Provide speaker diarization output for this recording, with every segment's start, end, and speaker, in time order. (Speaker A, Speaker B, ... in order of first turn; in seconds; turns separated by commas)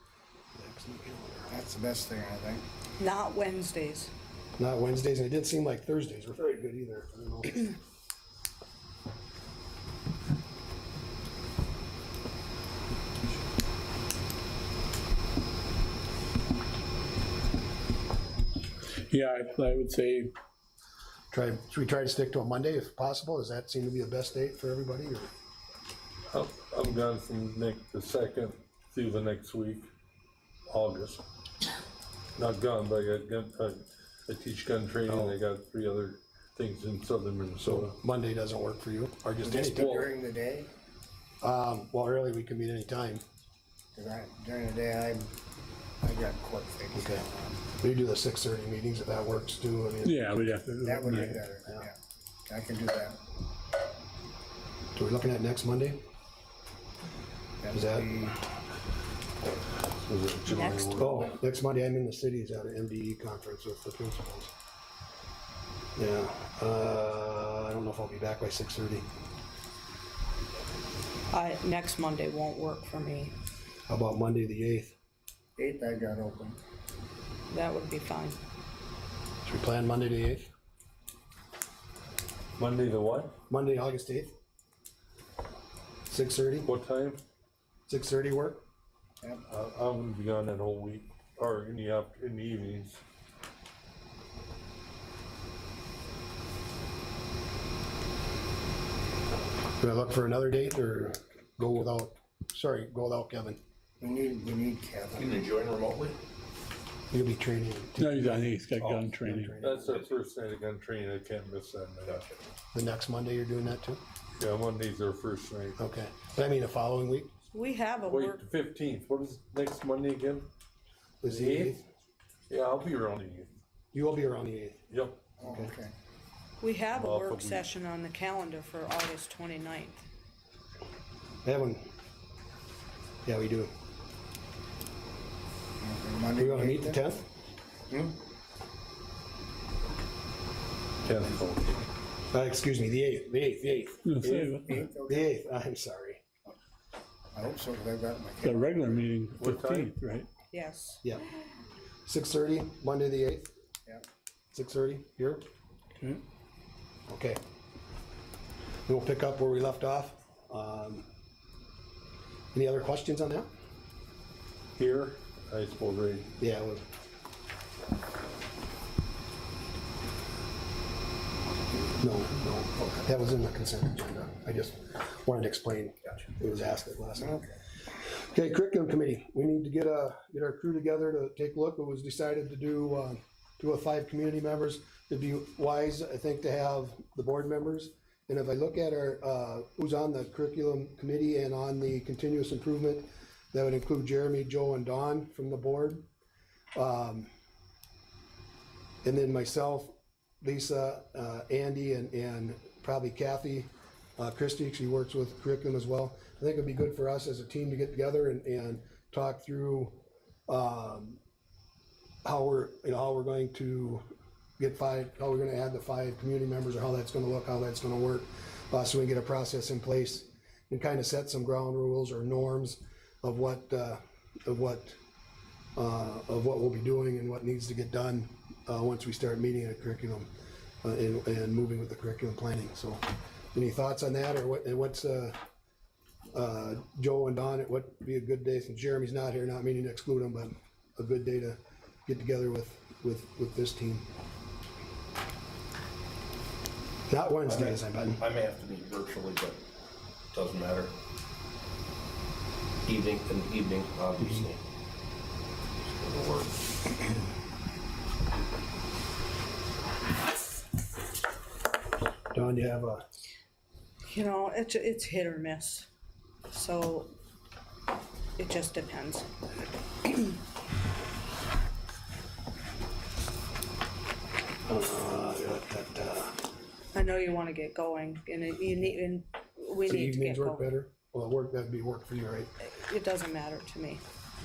Speaker A: 0.5-1.5, Speaker B: 1.5-2.6, Speaker C: 3.0-4.1, Speaker A: 4.6-7.8, Speaker D: 19.1-20.3, Speaker A: 21.3-25.3, Speaker E: 26.3-29.9, Speaker E: 30.7-31.2, Speaker E: 32.4-38.0, Speaker A: 35.1-35.4, Speaker A: 37.6-40.0, Speaker B: 39.4-40.7, Speaker E: 39.8-40.1, Speaker A: 41.4-43.2, Speaker B: 43.9-45.3, Speaker B: 46.0-47.6, Speaker A: 46.9-47.2, Speaker A: 47.8-50.4, Speaker D: 50.0-51.4, Speaker B: 50.8-52.0, Speaker A: 51.2-51.9, Speaker B: 52.5-53.2, Speaker A: 54.9-56.0, Speaker B: 57.6-58.4, Speaker A: 57.7-58.1, Speaker E: 59.9-61.0, Speaker C: 60.5-61.2, Speaker A: 61.0-64.5, Speaker A: 66.0-69.1, Speaker C: 71.3-73.3, Speaker A: 73.9-75.0, Speaker B: 75.6-76.6, Speaker C: 77.5-78.4, Speaker A: 79.4-80.5, Speaker E: 82.6-83.4, Speaker A: 83.5-84.3, Speaker A: 86.1-86.7, Speaker E: 86.6-87.2, Speaker A: 87.9-88.6, Speaker E: 89.5-93.0, Speaker A: 99.8-103.6, Speaker B: 104.0-105.3, Speaker F: 105.1-106.2, Speaker A: 107.1-110.1, Speaker D: 108.0-109.6, Speaker E: 108.8-109.0, Speaker E: 109.6-112.3, Speaker A: 112.7-114.0, Speaker E: 114.4-115.8, Speaker A: 115.8-117.3, Speaker C: 117.5-118.4, Speaker E: 118.0-120.5, Speaker A: 121.2-121.8, Speaker E: 121.2-121.8, Speaker E: 122.5-123.5, Speaker A: 123.9-124.8, Speaker E: 124.9-125.3, Speaker B: 125.4-125.9, Speaker A: 125.4-125.7, Speaker C: 126.6-130.0, Speaker E: 126.9-127.7, Speaker A: 131.4-131.9, Speaker A: 133.2-133.7, Speaker B: 135.8-137.0, Speaker A: 136.4-137.2, Speaker B: 137.9-138.2, Speaker E: 141.0-141.9, Speaker A: 142.3-144.1, Speaker D: 144.0-144.8, Speaker B: 144.2-145.3, Speaker A: 145.1-146.2, Speaker B: 147.3-148.8, Speaker D: 148.4-150.3, Speaker E: 149.4-150.0, Speaker C: 150.5-151.0, Speaker A: 152.1-153.5, Speaker A: 154.5-155.4, Speaker A: 157.1-157.4, Speaker A: 158.8-161.0, Speaker A: 162.5-163.5, Speaker E: 164.8-166.3, Speaker A: 166.4-166.8, Speaker A: 172.0-177.5, Speaker A: 178.1-196.0, Speaker A: 196.7-197.3, Speaker A: 199.0-211.2, Speaker A: 212.2-214.0, Speaker A: 214.6-225.0, Speaker A: 225.8-230.3, Speaker A: 230.8-235.4, Speaker A: 236.3-244.1, Speaker A: 247.1-248.2, Speaker F: 247.4-249.6, Speaker F: 250.3-250.9, Speaker F: 252.8-254.6, Speaker F: 255.8-256.6, Speaker A: 262.3-263.1, Speaker C: 264.1-265.9, Speaker C: 266.5-267.1, Speaker C: 268.4-269.3, Speaker A: 274.6-276.4, Speaker C: 276.9-280.7, Speaker A: 279.9-282.5, Speaker C: 282.7-284.0